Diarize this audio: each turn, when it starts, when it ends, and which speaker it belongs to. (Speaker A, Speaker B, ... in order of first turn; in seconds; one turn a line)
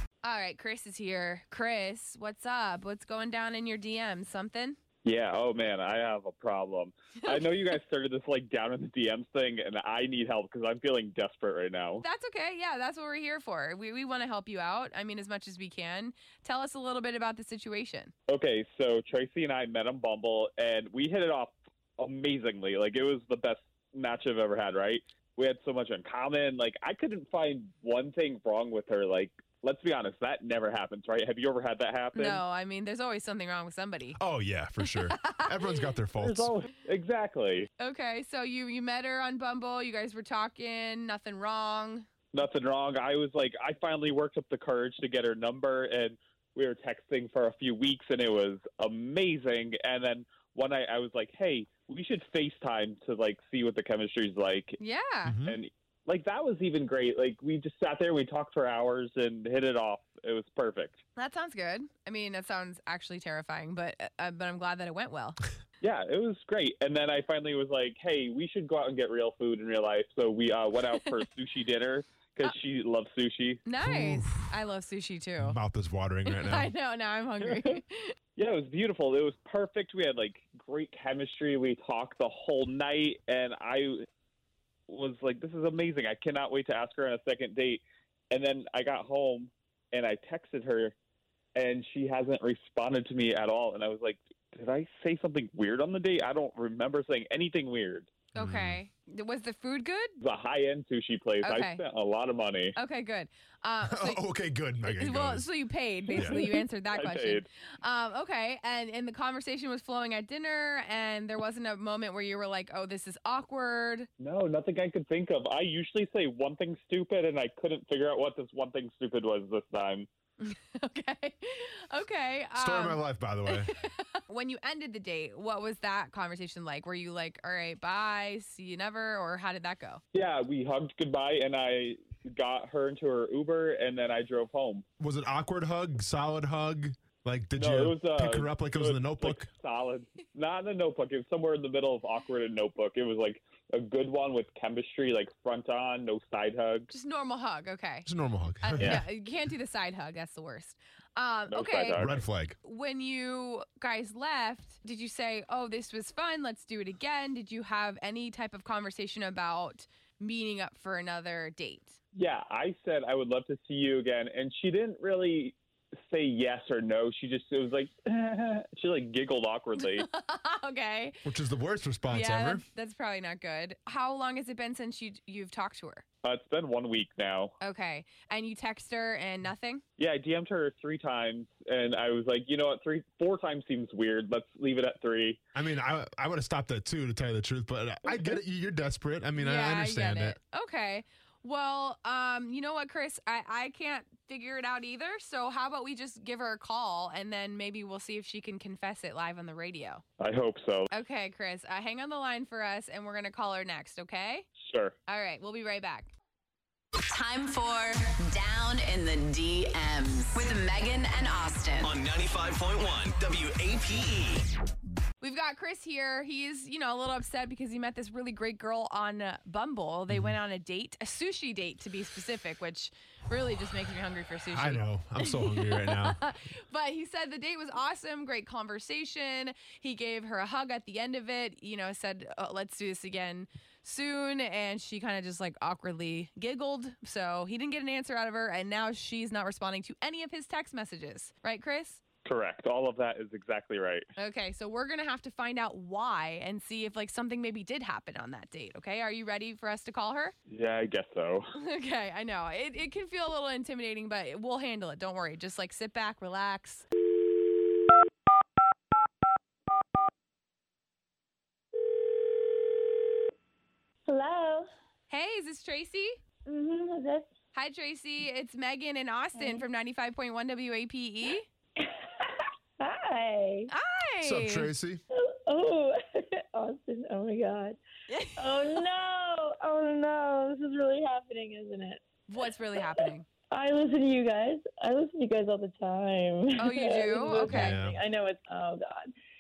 Speaker A: 0.2-4.8
Speaker B: 5.0-12.0
Speaker A: 12.0-18.1
Speaker B: 18.3-32.4
Speaker A: 32.1-34.2
Speaker C: 34.2-36.5
Speaker A: 34.8-35.8
Speaker B: 36.1-37.7
Speaker A: 37.8-42.1
Speaker B: 42.3-54.8
Speaker A: 54.8-55.4
Speaker C: 55.2-55.6
Speaker B: 55.5-61.0
Speaker A: 61.1-65.4
Speaker B: 65.8-73.6
Speaker A: 73.6-75.6
Speaker C: 73.8-74.5
Speaker C: 75.4-76.7
Speaker A: 76.2-78.1
Speaker B: 77.4-77.8
Speaker B: 78.3-84.1
Speaker B: 84.9-90.9
Speaker B: 91.5-98.1
Speaker C: 98.3-98.8
Speaker A: 98.3-100.2
Speaker B: 100.2-102.7
Speaker A: 101.4-101.8
Speaker A: 102.8-104.2
Speaker C: 103.8-105.5
Speaker A: 104.8-114.1
Speaker C: 106.0-106.4
Speaker B: 106.2-107.5
Speaker B: 114.2-120.1
Speaker A: 120.4-130.0
Speaker C: 122.5-123.7
Speaker B: 130.1-134.8
Speaker C: 135.0-139.5
Speaker B: 137.5-146.9
Speaker A: 146.9-148.1
Speaker C: 148.1-149.1
Speaker A: 148.6-152.1
Speaker B: 151.5-152.1
Speaker C: 151.9-152.6
Speaker A: 152.6-162.0
Speaker B: 162.1-170.1
Speaker A: 169.8-171.2
Speaker C: 171.2-172.6
Speaker A: 172.1-176.0
Speaker B: 176.2-177.5
Speaker A: 177.6-179.8
Speaker B: 180.0-185.4
Speaker C: 185.5-190.4
Speaker A: 189.3-200.0
Speaker B: 200.2-200.9
Speaker A: 200.9-204.5
Speaker B: 204.6-204.9
Speaker A: 205.1-206.1
Speaker D: 207.0-210.8
Speaker A: 210.3-211.9
Speaker E: 211.8-214.4
Speaker A: 215.2-242.0
Speaker C: 220.1-220.3
Speaker C: 224.5-226.2
Speaker B: 242.2-244.1
Speaker A: 244.2-250.3
Speaker B: 250.5-251.4
Speaker A: 251.6-256.9
Speaker F: 264.0-264.7
Speaker A: 265.1-266.2
Speaker F: 266.4-267.3
Speaker A: 267.5-271.4
Speaker F: 269.3-269.6
Speaker F: 271.8-273.7
Speaker A: 273.7-274.7
Speaker C: 274.2-275.0
Speaker F: 275.1-277.8
Speaker A: 278.1-278.7
Speaker F: 278.4-282.0
Speaker A: 282.3-283.2
Speaker F: 282.8-289.1
Speaker A: 286.6-287.8
Speaker C: 287.3-288.0